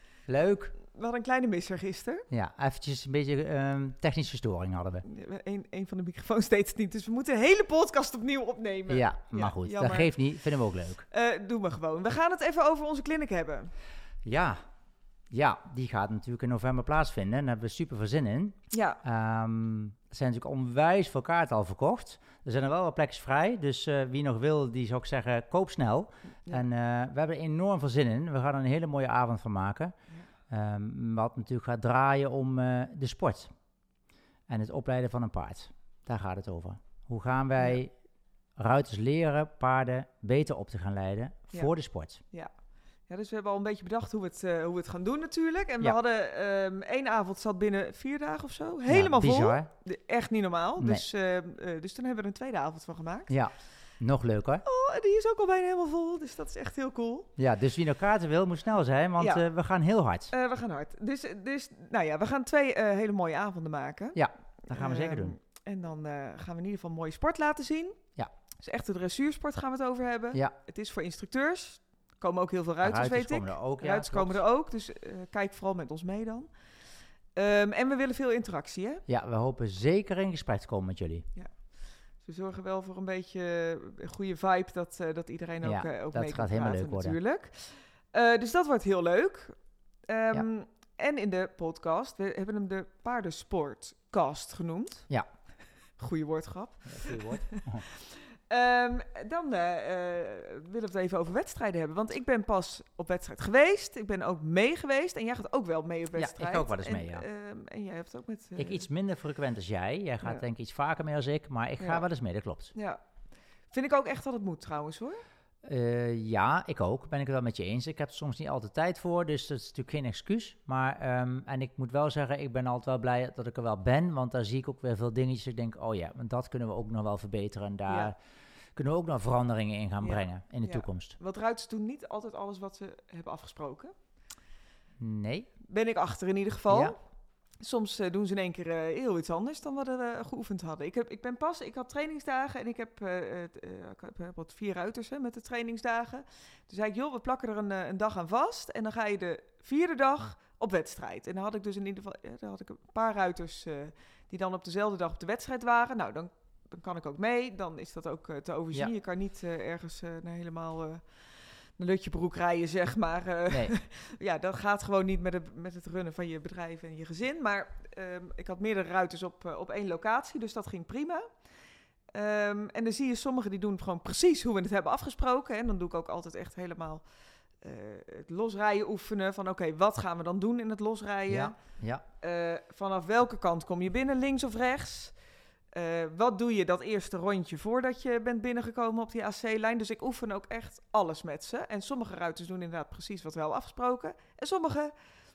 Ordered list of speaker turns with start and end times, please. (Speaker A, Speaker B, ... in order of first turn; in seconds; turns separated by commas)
Speaker A: 0.3-0.7, Speaker B: 0.8-2.2, Speaker A: 2.3-5.0, Speaker B: 5.0-10.2, Speaker A: 8.9-11.1, Speaker B: 11.1-13.7, Speaker A: 14.2-14.6, Speaker A: 15.3-29.9, Speaker B: 18.7-19.0, Speaker A: 30.5-33.5, Speaker A: 34.5-37.9, Speaker A: 38.6-42.2, Speaker B: 43.1-53.3, Speaker A: 48.9-49.7, Speaker A: 50.8-51.0, Speaker A: 53.3-54.6, Speaker B: 54.6-57.3, Speaker A: 57.4-60.3, Speaker B: 59.2-59.4, Speaker B: 60.3-68.0, Speaker A: 64.1-65.3, Speaker B: 68.6-76.5, Speaker A: 72.8-74.4, Speaker B: 77.3-79.0, Speaker A: 79.1-81.2, Speaker B: 82.2-89.5, Speaker A: 85.6-87.2, Speaker B: 90.1-95.1, Speaker B: 96.0-108.9, Speaker A: 96.8-97.8, Speaker A: 106.2-107.2, Speaker A: 108.6-112.7, Speaker B: 111.8-112.0, Speaker B: 112.7-113.0, Speaker B: 113.7-115.2, Speaker A: 115.6-128.2, Speaker B: 127.9-128.1, Speaker A: 128.8-131.2, Speaker B: 130.0-133.9, Speaker A: 135.0-135.5, Speaker B: 135.6-137.0, Speaker A: 136.7-136.9, Speaker B: 137.6-161.0, Speaker B: 161.8-171.2, Speaker B: 172.1-177.0, Speaker B: 177.6-181.6, Speaker A: 181.3-182.0, Speaker B: 182.2-185.2, Speaker B: 185.7-194.9